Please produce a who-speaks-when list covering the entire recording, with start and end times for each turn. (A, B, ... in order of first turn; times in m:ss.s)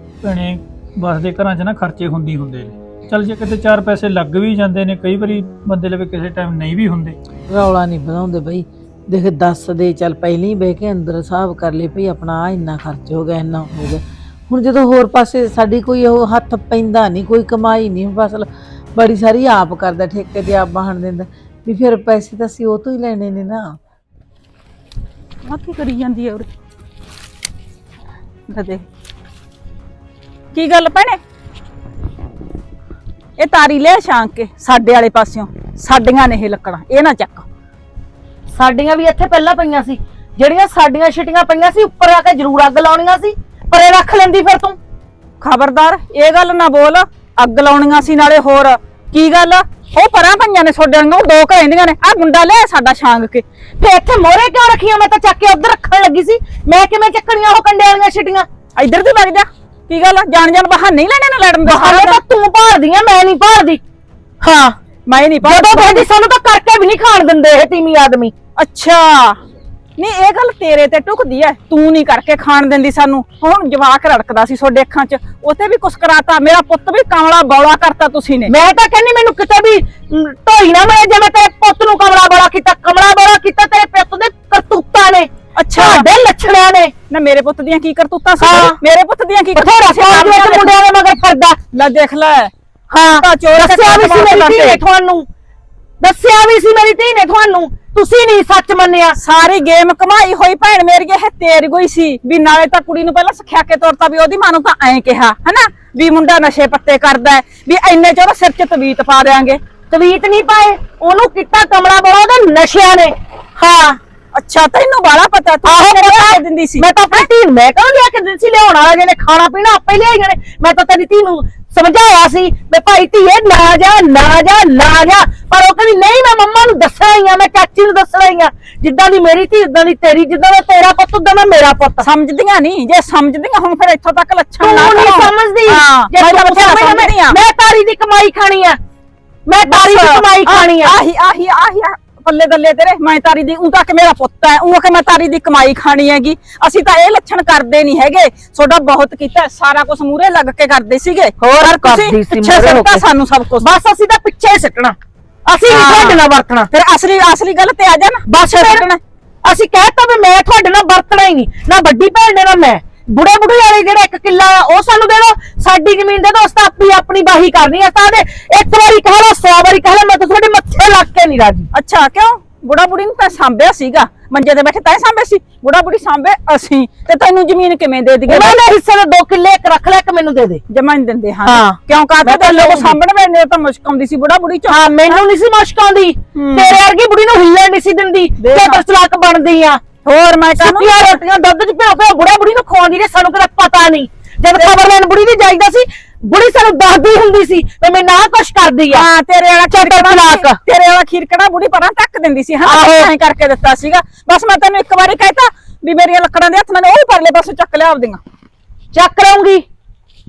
0:00.2-0:07.2 A
0:07.5-0:23.8 B
0:25.4-0:26.5 C
0:28.5-0:28.8 C
0:30.5-0:31.2 C
0:33.4-0:37.5 C
0:39.1-0:40.8 D
0:41.5-0:42.7 D
0:43.7-0:44.8 D
0:45.4-0:53.4 C
0:53.8-0:58.5 D
0:58.8-1:02.2 C
1:01.6-1:03.8 D
1:04.4-1:04.8 D
1:05.1-1:06.1 C
1:05.4-1:08.3 D
1:08.6-1:09.4 C
1:10.0-1:18.5 C
1:18.5-1:26.9 D
1:25.6-1:26.1 C
1:27.1-1:30.7 C
1:28.4-1:28.8 D
1:29.6-1:31.6 D
1:31.7-1:32.5 C
1:32.9-1:35.3 D
1:33.2-1:34.8 C
1:36.0-1:39.2 D
1:39.2-1:49.6 C
1:49.9-1:54.0 D
1:54.4-1:57.3 C
1:55.6-2:12.1 D
2:12.0-2:17.4 C
2:14.6-2:18.8 D
2:19.5-2:21.0 D
2:19.7-2:33.6 C
2:31.4-2:33.1 D
2:33.6-2:36.7 D
2:35.7-2:36.2 C
2:36.7-2:39.0 C
2:38.3-2:38.9 D
2:39.4-2:51.7 D
2:51.7-2:58.6 C
2:58.3-3:00.6 D
3:00.7-3:05.2 C
3:01.4-3:03.0 D
3:04.7-3:09.8 D
3:06.4-3:06.8 C
3:08.4-3:08.8 C
3:10.0-3:11.1 C
3:10.5-3:19.1 D
3:14.5-3:14.8 C
3:18.9-3:28.2 C
3:19.7-3:20.6 D
3:22.6-3:23.1 D
3:28.9-3:29.7 D